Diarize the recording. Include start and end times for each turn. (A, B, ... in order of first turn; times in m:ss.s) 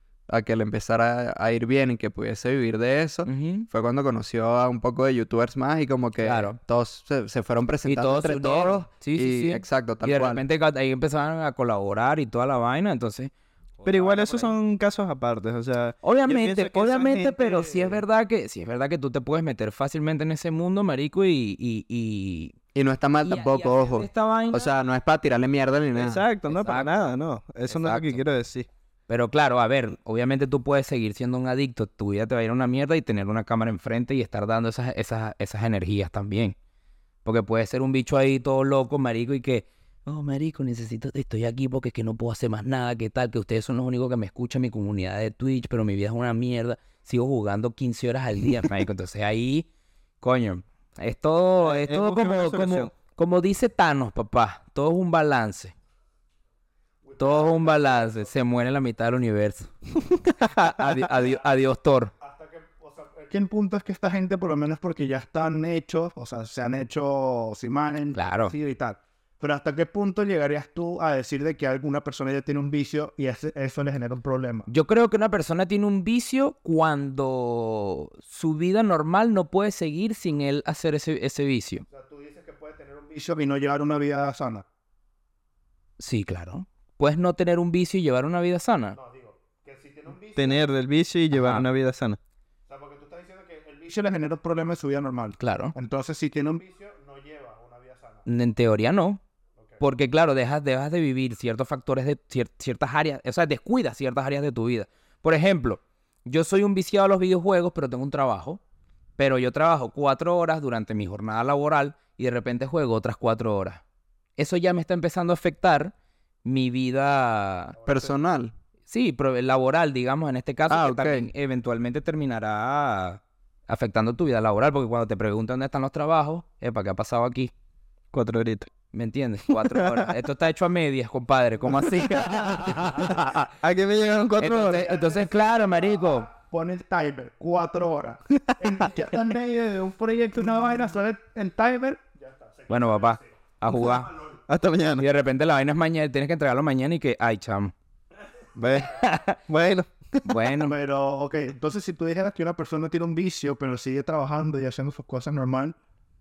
0:00.3-0:10.4 A
0:03.3-0:03.7 B
0:06.2-0:06.6 B
0:07.9-0:14.5 B
0:13.8-0:18.0 C
0:16.0-0:22.6 B
0:22.7-0:26.2 A
0:23.2-0:24.7 B
0:25.9-0:28.7 C
0:26.6-0:27.0 B
0:27.7-0:28.2 B
0:29.1-0:36.6 B
0:37.2-0:49.7 B
0:50.2-0:55.7 B
0:51.6-0:52.9 C
0:57.0-0:58.3 D
0:57.2-0:59.7 B
1:00.4-1:02.1 B
1:01.0-1:01.5 D
1:02.2-1:14.7 D
1:08.1-1:08.5 B
1:14.7-1:21.8 B
1:21.9-1:24.6 D
1:26.0-1:29.0 B
1:28.9-1:30.6 D
1:30.4-1:32.2 C
1:31.3-1:31.6 B
1:32.7-1:38.2 D
1:35.4-1:35.7 B
1:38.2-1:39.2 B
1:39.8-1:48.6 B
1:49.2-1:53.8 B
1:54.4-1:55.9 B
1:56.4-1:57.8 B
1:57.8-1:58.1 D
1:57.8-1:58.5 A
1:58.9-2:07.5 B
2:00.7-2:01.3 A
2:08.1-2:08.7 C
2:08.9-2:13.5 B
2:09.5-2:10.1 C
2:11.7-2:12.5 C
2:13.6-2:14.9 C
2:14.4-2:16.3 B
2:14.7-2:24.4 D
2:22.7-2:24.1 B
2:24.5-2:25.0 C
2:25.0-2:27.7 B
2:28.6-2:30.4 C
2:28.9-2:29.4 B
2:30.2-2:30.7 B
2:30.6-2:35.7 D